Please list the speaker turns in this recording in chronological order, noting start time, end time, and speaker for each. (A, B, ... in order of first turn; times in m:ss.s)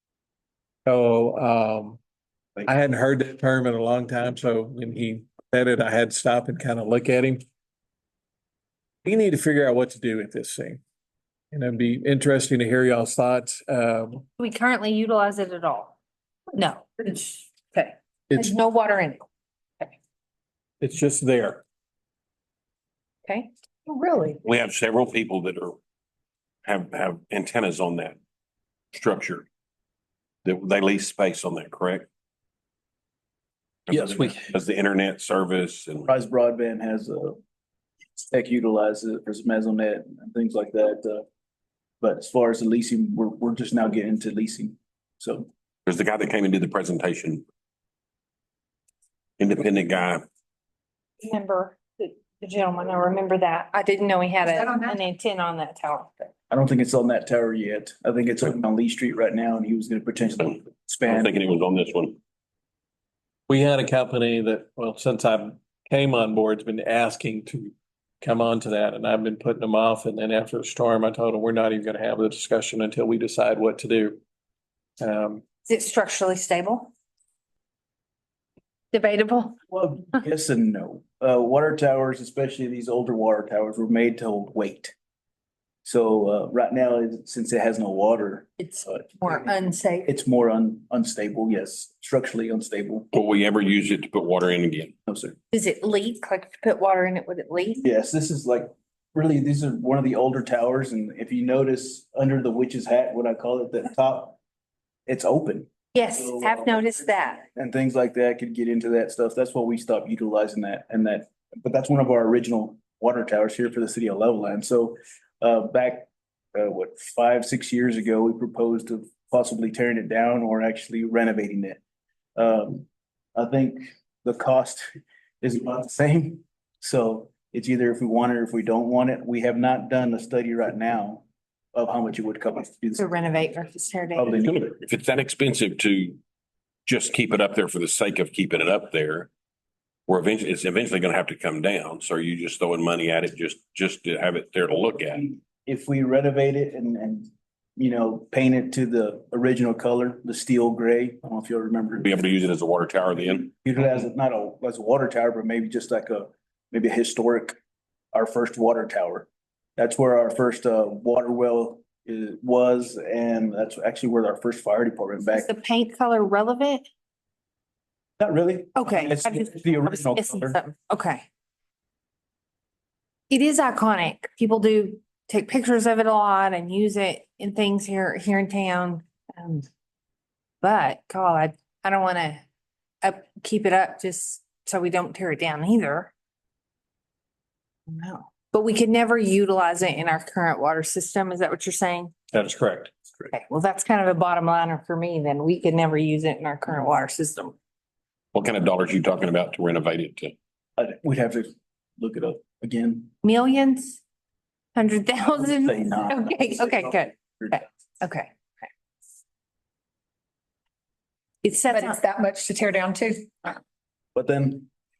0:00.8-0:02.0 A
0:02.6-0:07.4 A
0:09.0-0:10.8 A
0:11.5-0:14.2 A
0:14.4-0:16.0 B
0:16.5-0:19.2 B
0:20.8-0:21.6 A
0:23.9-0:24.4 C
0:24.4-0:25.8 D
0:26.6-0:28.2 D
0:28.9-0:29.4 D
0:30.4-0:32.1 D
0:33.9-0:36.1 D
0:33.9-0:34.5 E
0:36.0-0:37.4 E
0:38.2-0:41.2 E
0:42.0-0:45.5 E
0:45.8-0:47.4 D
0:49.4-0:50.2 D
0:51.2-0:56.2 B
0:56.5-1:01.3 E
1:01.1-1:02.2 D
1:03.5-1:14.2 A
1:15.0-1:15.4 A
1:15.7-1:16.9 B
1:18.9-1:19.6 B
1:19.7-1:24.9 E
1:25.8-1:33.1 E
1:28.6-1:30.1 B
1:33.1-1:34.9 D
1:35.1-1:35.4 E
1:35.5-1:37.8 B
1:37.8-1:44.4 E
1:45.1-1:46.8 E
1:45.9-1:47.4 B
1:47.5-2:01.8 E
2:02.4-2:04.9 E
2:05.4-2:13.0 E
2:13.0-2:14.3 B
2:14.1-2:14.7 E
2:14.4-2:16.2 D
2:16.8-2:19.3 D
2:20.1-2:25.3 D
2:25.2-2:32.1 E
2:32.0-2:33.5 D
2:33.5-2:37.6 E
2:38.1-2:45.5 E
2:45.3-2:46.9 B
2:48.2-2:50.6 E
2:48.8-2:51.2 B
2:53.3-2:59.7 B
3:00.6-3:02.4 B
3:03.0-3:06.1 B
3:07.9-3:12.1 B
3:12.3-3:12.9 A
3:13.3-3:17.5 B
3:18.3-3:20.3 D
3:20.8-3:23.1 E
3:23.2-3:24.0 B
3:24.7-3:28.7 B
3:25.3-3:27.6 E
3:31.4-3:32.0 B
3:31.7-3:33.6 C
3:34.1-3:34.7 E